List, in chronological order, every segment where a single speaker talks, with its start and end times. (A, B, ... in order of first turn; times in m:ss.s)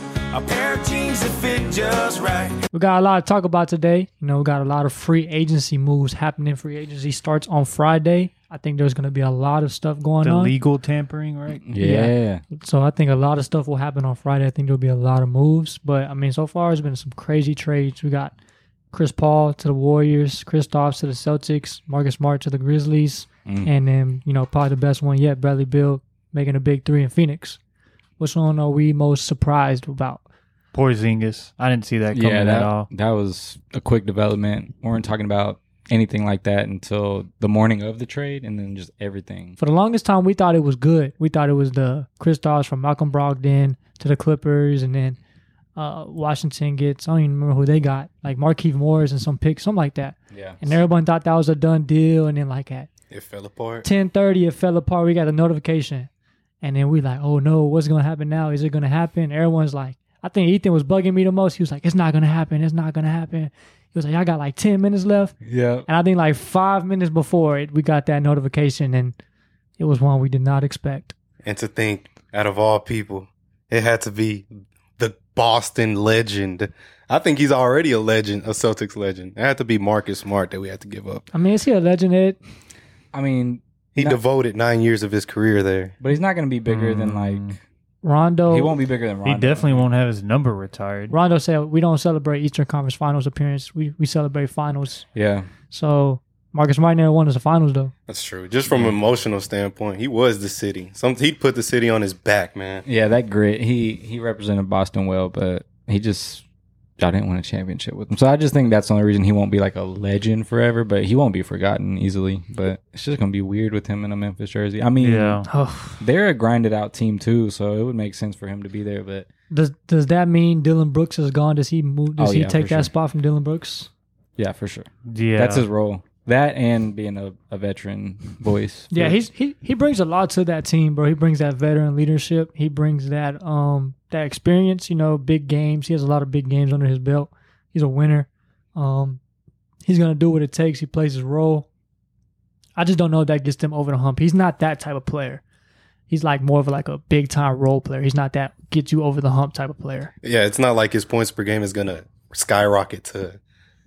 0:00.3-0:02.6 A
0:02.7-0:10.5 B
0:10.2-0:11.6 C
0:11.6-0:12.4 D
0:11.8-0:18.3 B
0:18.9-0:27.6 B
0:23.4-0:23.7 D
0:28.2-0:30.2 B
0:30.7-0:32.9 C
0:32.1-0:39.6 D
0:39.6-0:45.2 B
0:45.8-0:52.9 B
0:50.3-0:50.8 D
0:53.1-0:53.9 E
0:53.8-0:56.1 B
0:56.6-1:09.2 B
1:05.4-1:05.9 D
1:09.8-1:11.1 B
1:11.4-1:21.2 E
1:21.3-1:22.4 B
1:23.1-1:24.2 D
1:23.9-1:25.9 E
1:26.0-1:27.6 D
1:26.7-1:27.6 C
1:28.0-1:28.7 B
1:28.5-1:29.8 D
1:29.2-1:31.2 C
1:31.1-1:35.1 B
1:35.1-1:35.5 D
1:35.7-1:37.9 B
1:38.1-1:42.8 E
1:38.7-1:39.0 D
1:42.8-1:46.4 D
1:47.0-1:55.4 D
1:55.0-1:55.5 C
1:55.5-1:56.0 B
1:56.0-1:59.3 D
1:59.5-2:03.9 B
2:02.2-2:02.9 D
2:04.4-2:09.2 D
2:05.0-2:05.6 C
2:08.9-2:19.2 B
2:19.8-2:21.6 B
2:22.8-2:25.4 B
2:26.1-2:30.1 B
2:30.2-2:33.4 E